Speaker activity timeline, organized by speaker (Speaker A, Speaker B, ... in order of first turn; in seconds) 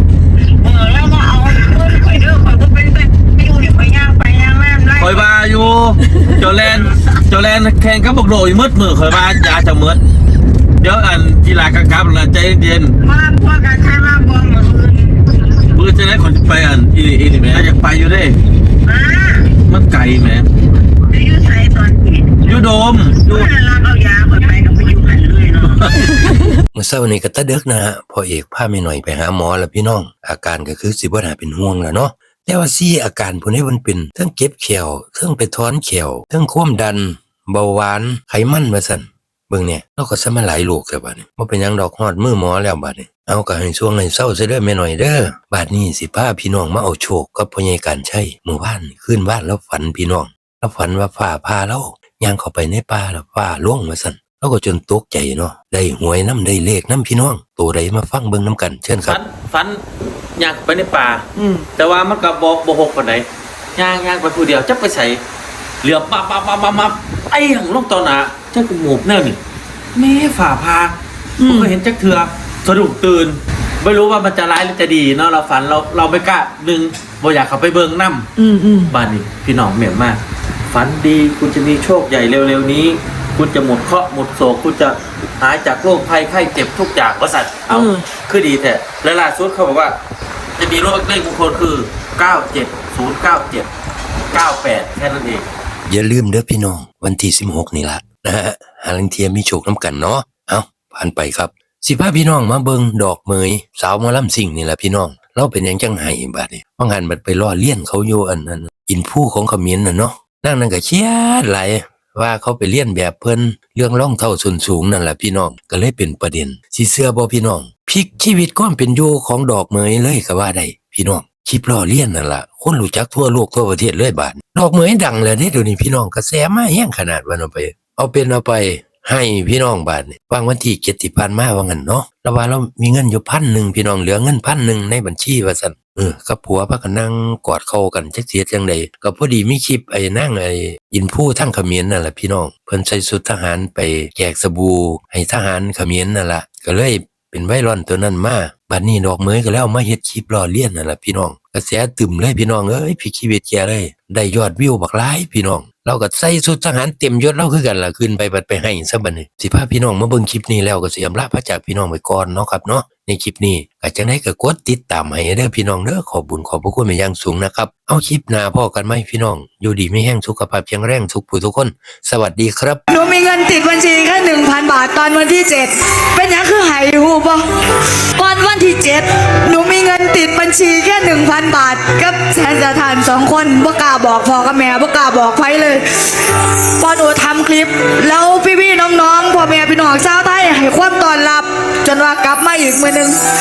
Speaker A: 0.6-5.3, 6.6-7.1, 13.0-15.7, 18.8-19.6, 21.1-26.2
Speaker B: 5.0-10.0, 10.8-12.9, 15.7-18.4, 19.7-20.5, 22.5-23.5, 25.7-26.3
Speaker C: 26.8-59.2, 95.9-172.8
Speaker D: 59.1-59.8, 60.4-65.2, 65.8-69.4, 70.0-78.3, 78.9-90.0, 90.6-93.7, 94.3-95.5
Speaker E: 78.4-78.9, 172.9-177.4, 178.2-193.2